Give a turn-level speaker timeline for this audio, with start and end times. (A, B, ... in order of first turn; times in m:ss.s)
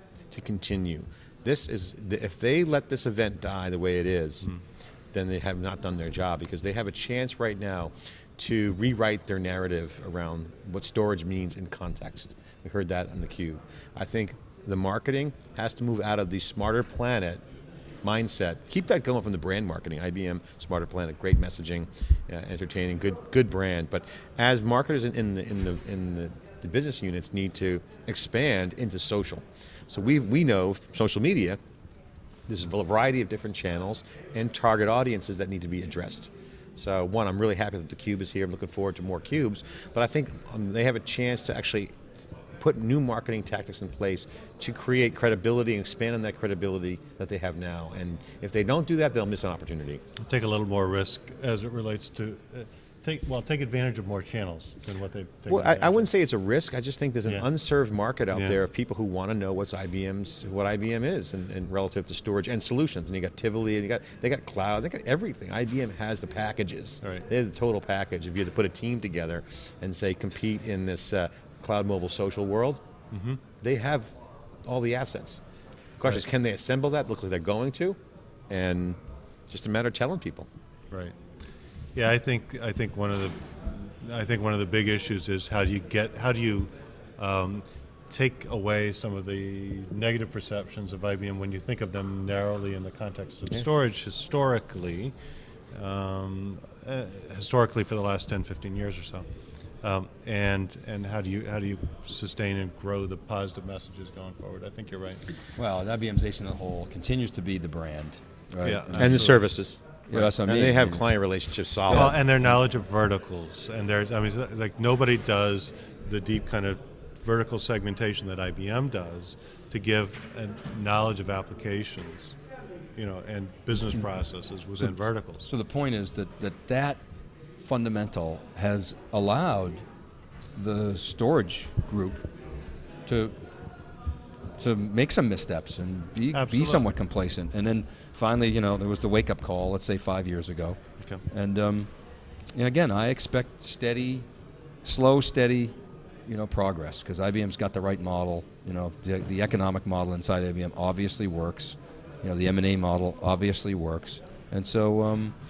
0:00.3-0:04.5 A
0:05.1-0:17.4 A
0:18.0-0:31.6 A
0:32.5-0:41.9 A
0:42.6-0:50.0 A
0:50.2-0:56.1 B
0:55.5-1:12.8 A
0:58.3-0:58.6 B
1:13.1-1:13.4 B
1:13.6-1:14.1 A
1:14.6-1:15.4 A
1:16.0-1:18.0 A
1:18.5-1:19.0 A
1:19.5-1:20.5 A
1:21.9-1:35.1 B
1:35.7-1:39.2 B
1:39.8-1:45.2 B
1:45.6-1:49.4 C
1:48.6-1:49.4 B
1:48.9-1:52.2 A
1:50.1-1:51.1 C
1:51.9-1:52.5 C
1:51.9-2:02.4 B
2:03.0-2:05.5 B
2:05.4-2:07.0 C
2:07.6-2:09.8 C
2:10.5-2:12.2 C
2:13.0-2:13.3 C
2:14.6-2:20.8 C
2:16.3-2:16.8 B
2:21.3-2:21.9 C
2:22.6-2:24.2 C
2:24.8-2:25.7 C
2:26.2-2:35.3 C